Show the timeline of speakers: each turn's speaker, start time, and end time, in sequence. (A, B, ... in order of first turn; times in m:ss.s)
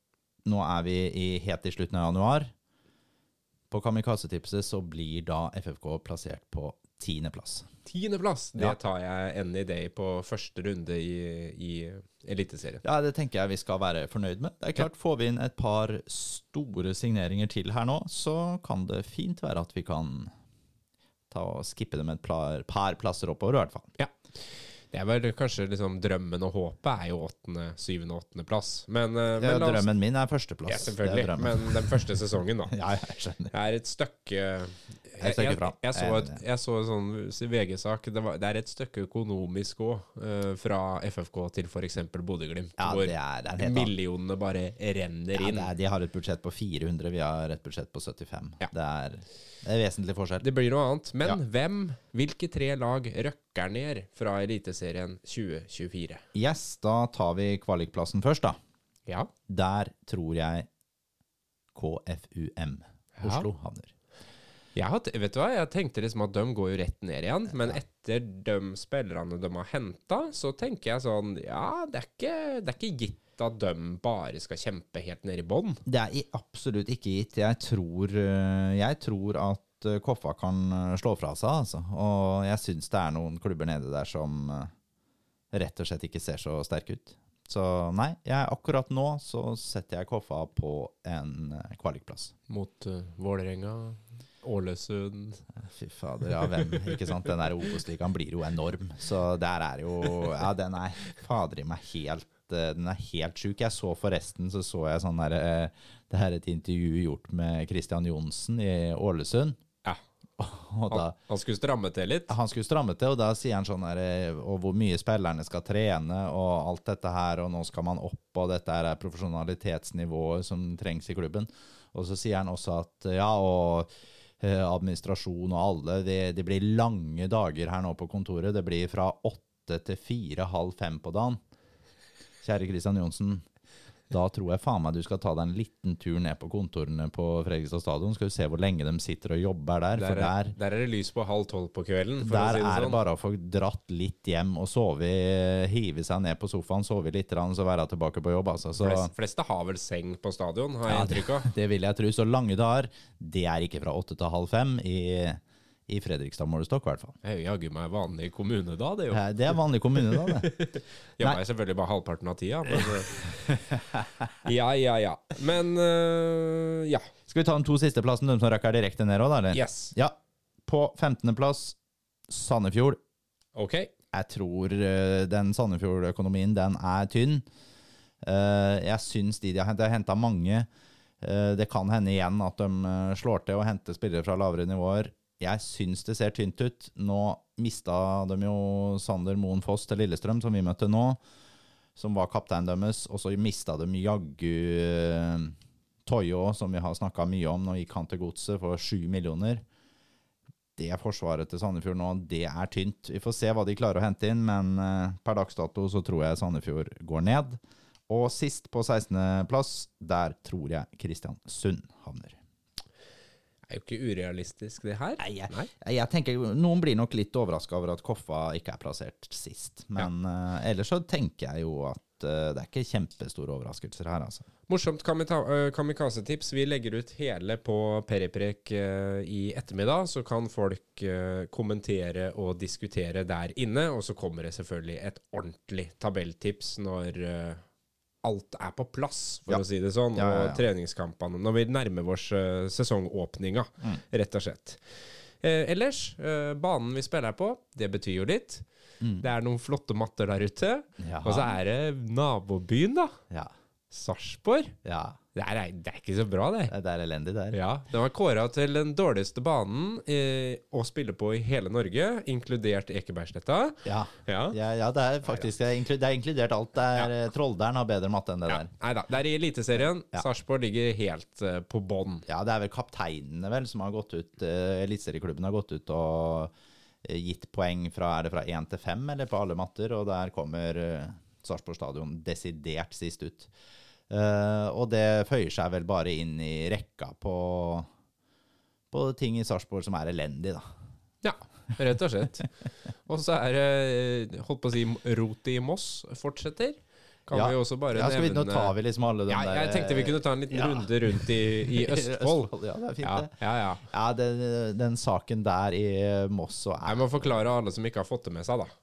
0:00.4-0:02.5 A
0:03.7-0:07.7 A
0:07.9-0:12.8 B
0:12.8-0:20.3 A
0:21.3-0:23.9 A
0:24.0-0:29.9 B
0:29.4-0:32.1 A
0:30.6-0:32.7 B
0:32.7-0:33.5 A
0:33.5-0:45.7 B
0:35.2-0:36.4 A
0:42.8-0:43.9 A
0:45.3-0:50.4 A
0:50.4-0:56.2 B
0:56.3-0:58.6 A
0:59.5-1:00.7 A
1:01.7-1:03.9 A
1:03.2-1:03.5 B
1:04.7-1:15.8 B
1:07.5-1:07.8 A
1:15.8-1:24.7 A
1:25.5-1:32.3 A
1:32.5-1:35.4 B
1:35.6-1:49.6 A
1:50.4-1:51.2 A
1:50.9-1:52.3 B
1:52.3-2:11.4 A
2:12.4-2:13.4 A
2:14.1-2:20.6 A
2:20.0-2:23.0 B
2:22.2-2:29.1 A
2:28.8-2:31.5 B
2:30.9-2:37.1 A
2:37.2-2:39.2 B
2:39.1-2:40.6 A
2:40.1-2:43.4 B
2:43.5-2:44.3 A
2:44.4-2:47.1 B
2:47.3-2:51.8 A
2:49.5-2:49.9 B
2:52.3-2:53.0 A
2:53.5-2:53.9 B
2:54.1-2:57.4 A
2:58.2-3:00.7 A
3:01.2-3:11.2 A
3:12.0-3:15.5 A
3:16.0-3:19.6 A
3:20.8-3:32.4 A
3:33.7-3:35.7 B
3:35.2-3:44.5 A
3:44.7-3:57.6 B
3:58.2-4:08.6 B
3:59.5-4:00.6 A
4:09.0-4:09.3 A
4:09.2-4:13.2 B
4:11.0-4:11.5 A
4:13.9-4:14.7 B
4:14.8-4:15.2 A
4:15.4-4:16.7 B
4:16.7-4:17.6 A
4:17.5-4:24.6 B
4:23.8-4:28.7 A
4:28.5-4:32.2 B
4:29.8-4:30.2 A
4:32.3-4:36.5 A
4:37.0-4:43.5 A
4:44.1-4:47.9 A
4:48.9-4:50.7 A
4:51.2-4:58.7 B
4:57.3-5:07.4 A
4:59.3-5:02.5 B
5:03.0-5:03.8 B
5:06.8-5:08.7 B